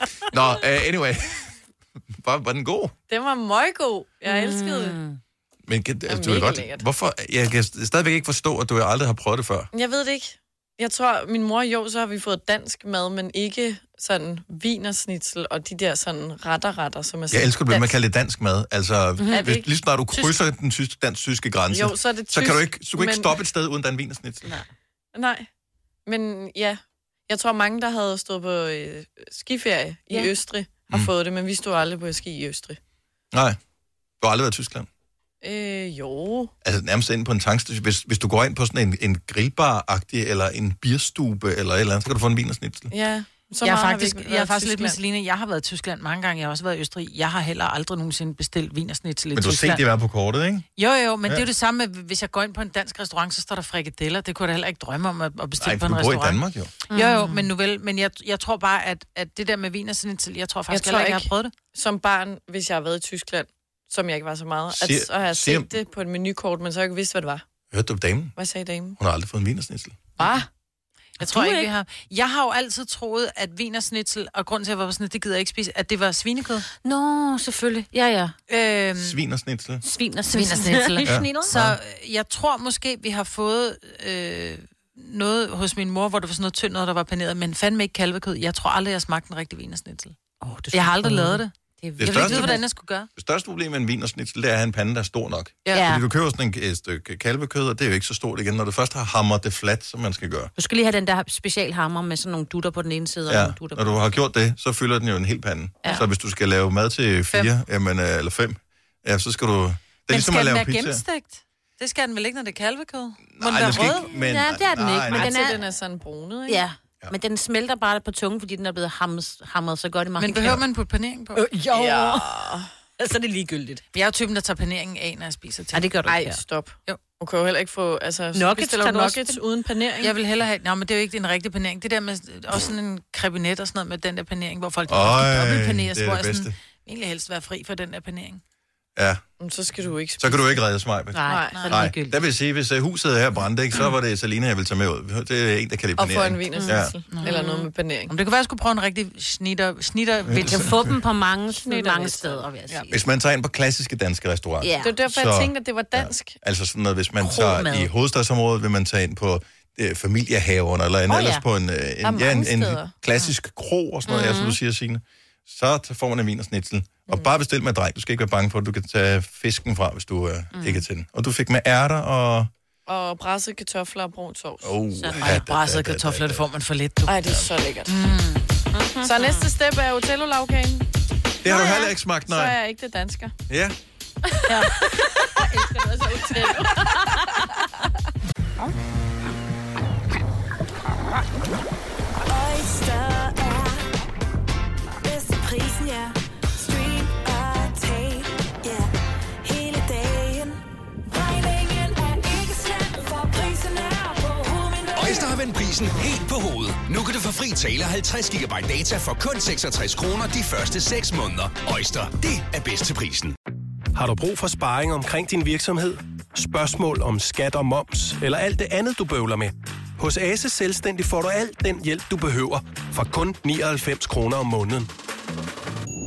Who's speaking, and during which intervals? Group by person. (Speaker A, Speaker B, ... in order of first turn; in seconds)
Speaker A: 0.2-1.5, 2.2-2.9, 5.7-9.7, 17.3-24.6, 33.3-33.6, 34.2-34.9, 36.6-42.9, 49.4-50.7, 55.6-56.7, 64.7-65.7, 67.7-68.3, 69.0-70.0, 79.0-79.8, 81.0-81.8, 92.0-92.6, 93.1-100.5, 103.3-111.0, 113.3-115.5, 134.9-136.5, 139.0-139.2, 140.2-146.9, 150.3-150.8, 152.9-172.5, 174.6-176.4, 181.4-182.6, 183.5-183.8
Speaker B: 3.1-5.0, 6.1-6.9, 9.7-17.9, 19.3-19.7, 21.7-23.3, 25.1-25.5, 26.1-32.8, 35.4-36.5, 42.9-45.0, 60.7-67.4, 68.4-69.0, 70.2-70.5, 115.1-116.6, 121.7-122.7, 126.1-130.2, 139.4-140.6, 141.2-141.7, 146.0-148.1, 151.6-152.9, 154.8-156.4, 162.0-162.9, 172.9-174.8, 177.1-177.9, 179.0-180.9, 181.5-183.3, 185.3-187.7
Speaker C: 4.2-5.2, 19.2-19.5, 56.9-57.5, 71.2-71.7, 76.8-78.4, 79.8-81.5, 90.4-92.7, 95.7-96.0, 100.6-104.1, 114.1-115.6, 116.5-120.6, 121.4-122.3, 123.0-123.8, 125.7-126.4, 128.4-129.3, 141.1-142.2, 146.5-147.6, 150.3-152.9, 154.6-155.0, 157.2-157.9, 161.1-161.4, 164.1-164.6, 170.5-170.8, 175.0-175.4, 178.7-179.5
Speaker D: 43.6-49.8, 50.8-61.5, 71.2-76.7, 78.5-79.2, 80.3-90.2, 90.7-93.1, 110.1-114.1, 120.2-121.5, 123.9-125.9, 130.0-138.4, 141.5-141.8, 147.1-147.5, 148.1-150.7, 175.2-177.3, 177.9-178.4
Speaker E: 192.2-193.9, 195.0-198.9, 199.4-205.3
Speaker F: 204.9-213.3
Speaker G: 213.9-224.9